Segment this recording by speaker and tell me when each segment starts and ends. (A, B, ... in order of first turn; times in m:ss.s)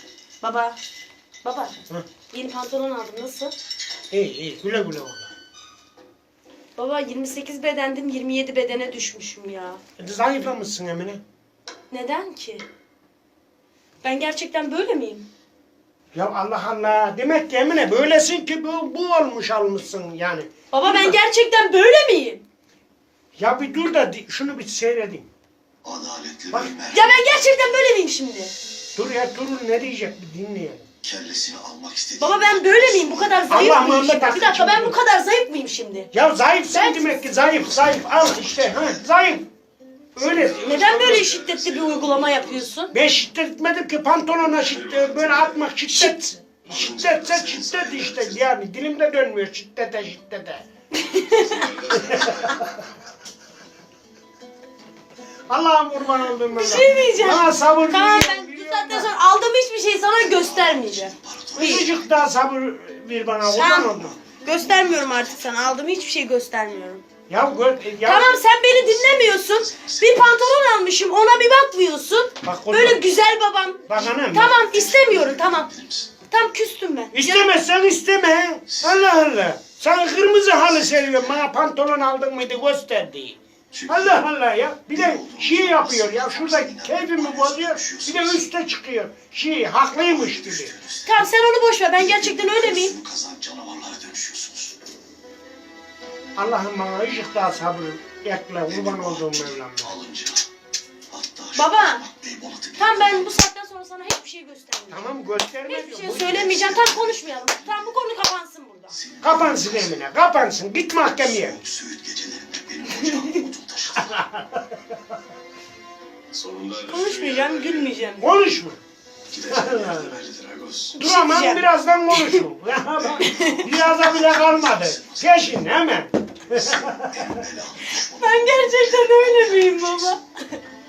0:00.4-0:00.8 A
0:01.4-0:01.7 A
0:02.3-0:03.5 A
0:04.1-0:05.3 B
0:06.8-0:09.8 A
0:10.0-0:11.2 B
0:11.9-0:12.6 A
0:14.0-0:15.2 A
0:16.1-0:21.2 B
0:20.7-0:22.4 A
0:23.4-0:25.3 B
0:25.8-0:27.1 C
0:26.9-0:28.5 A
0:29.0-0:30.8 B
0:31.0-0:33.6 C
0:32.2-0:36.1 A
0:33.5-0:35.0 B
0:36.1-0:39.5 B
0:36.7-0:37.2 A
0:37.6-0:39.0 C
0:40.1-0:41.2 B
0:40.2-0:42.7 C
0:40.3-0:42.9 A
0:42.9-0:50.6 B
0:44.5-0:45.7 C
0:46.7-0:48.4 C
0:50.9-0:51.7 A
0:51.2-0:52.7 C
0:52.0-0:52.7 B
0:55.5-0:59.1 B
0:56.5-1:01.9 A
1:00.2-1:02.1 C
1:01.6-1:04.2 B
1:03.4-1:07.0 A
1:03.7-1:05.7 C
1:07.3-1:08.4 B
1:08.0-1:15.7 A
1:08.7-1:10.6 C
1:12.4-1:13.0 B
1:13.9-1:14.6 B
1:14.6-1:16.1 C
1:16.2-1:17.5 A
1:17.1-1:23.4 B
1:18.7-1:19.3 C
1:20.6-1:21.4 C
1:23.7-1:24.2 C
1:23.9-1:30.7 B
1:24.9-1:28.4 C
1:30.0-1:31.1 C
1:31.0-1:33.0 A
1:32.0-1:34.8 C
1:36.4-1:40.0 B
1:38.7-1:40.5 C
1:41.1-1:43.3 C
1:41.5-1:42.0 A
1:42.8-1:45.1 A
1:44.9-1:46.8 B
1:45.6-1:49.0 A
1:46.4-1:47.8 C
1:48.9-1:50.0 C
1:49.2-1:51.6 B
1:51.0-1:54.2 C
1:52.9-1:53.4 A
1:54.0-1:54.6 B
1:56.3-1:57.9 C
1:56.9-1:58.3 A
1:58.2-1:58.8 B
1:59.3-2:01.0 C
1:59.5-2:00.2 B
2:00.9-2:02.4 A
2:01.0-2:07.3 B
2:03.0-2:05.6 C
2:03.2-2:03.6 A
2:06.5-2:10.2 C
2:07.9-2:10.6 A